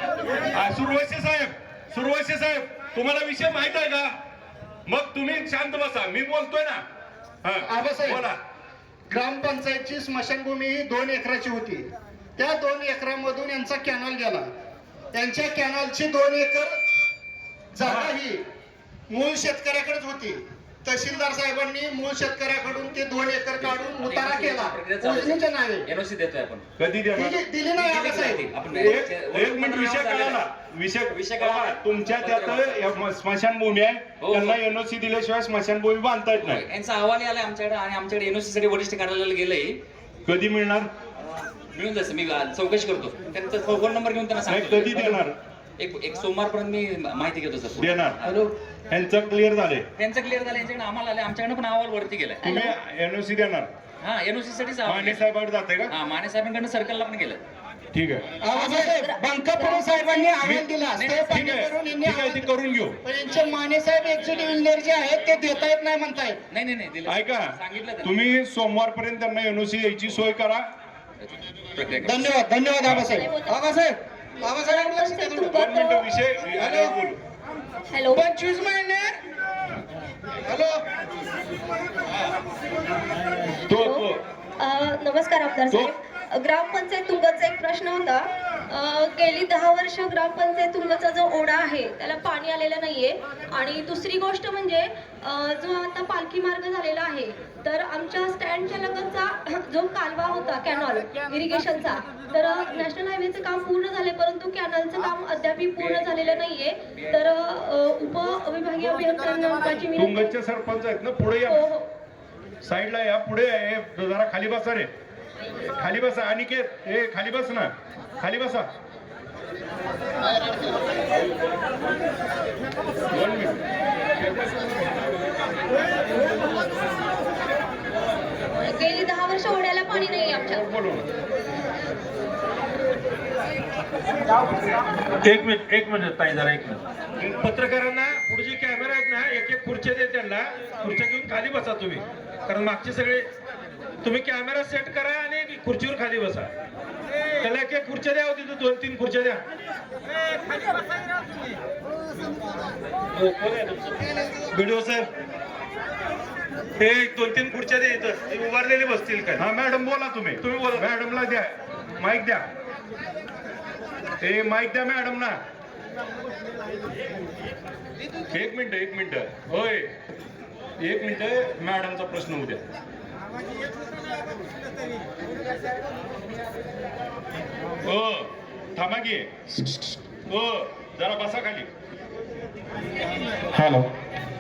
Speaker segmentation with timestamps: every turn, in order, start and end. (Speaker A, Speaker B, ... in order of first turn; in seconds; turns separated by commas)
Speaker A: 0.5-4.1, Speaker A: 4.9-6.8, Speaker A: 7.4-8.4, Speaker B: 7.7-8.2, Speaker B: 9.1-14.5, Speaker B: 15.1-16.8, Speaker B: 17.7-18.4, Speaker A: 17.8-18.2, Speaker B: 19.1-25.9, Speaker C: 23.6-26.6, Speaker A: 26.8-27.4, Speaker B: 27.1-29.0, Speaker C: 27.8-30.5, Speaker A: 28.7-36.6, Speaker C: 31.1-32.8, Speaker C: 34.2-34.6, Speaker C: 36.4-39.8, Speaker A: 40.2-40.9, Speaker C: 41.7-45.2, Speaker A: 44.5-45.4, Speaker C: 45.8-48.5, Speaker A: 47.8-48.2, Speaker A: 48.9-49.9, Speaker C: 50.0-52.4, Speaker A: 52.4-53.7, Speaker D: 52.4-52.8, Speaker C: 54.0-55.3, Speaker A: 54.9-55.9, Speaker C: 55.9-57.4, Speaker A: 57.9-58.2, Speaker B: 58.4-62.5, Speaker D: 58.5-60.4, Speaker A: 60.4-60.7, Speaker C: 60.9-61.6, Speaker A: 61.3-63.0, Speaker B: 63.0-66.4, Speaker C: 66.5-68.1, Speaker A: 67.1-70.7, Speaker C: 71.2-72.4, Speaker B: 72.0-75.5, Speaker D: 73.1-73.6, Speaker D: 74.6-76.0, Speaker A: 75.5-77.2, Speaker B: 76.6-76.9, Speaker D: 77.9-78.3, Speaker B: 78.1-79.1, Speaker B: 80.5-80.8, Speaker A: 83.7-84.2, Speaker D: 83.7-84.1, Speaker D: 84.6-110.3, Speaker C: 105.8-107.3, Speaker A: 110.0-111.6, Speaker D: 111.5-111.9, Speaker A: 112.6-114.9, Speaker A: 115.7-118.7, Speaker A: 123.1-123.6, Speaker A: 124.2-124.5, Speaker D: 128.6-130.6, Speaker A: 130.3-131.1, Speaker E: 135.2-143.3, Speaker E: 144.0-146.5, Speaker E: 147.4-149.4, Speaker E: 153.2-155.1, Speaker E: 156.8-159.4, Speaker A: 159.4-162.4, Speaker E: 160.4-160.8, Speaker A: 164.2-165.4, Speaker A: 168.3-169.9, Speaker A: 170.8-172.6, Speaker A: 177.8-179.7, Speaker A: 180.3-181.7, Speaker A: 183.6-183.9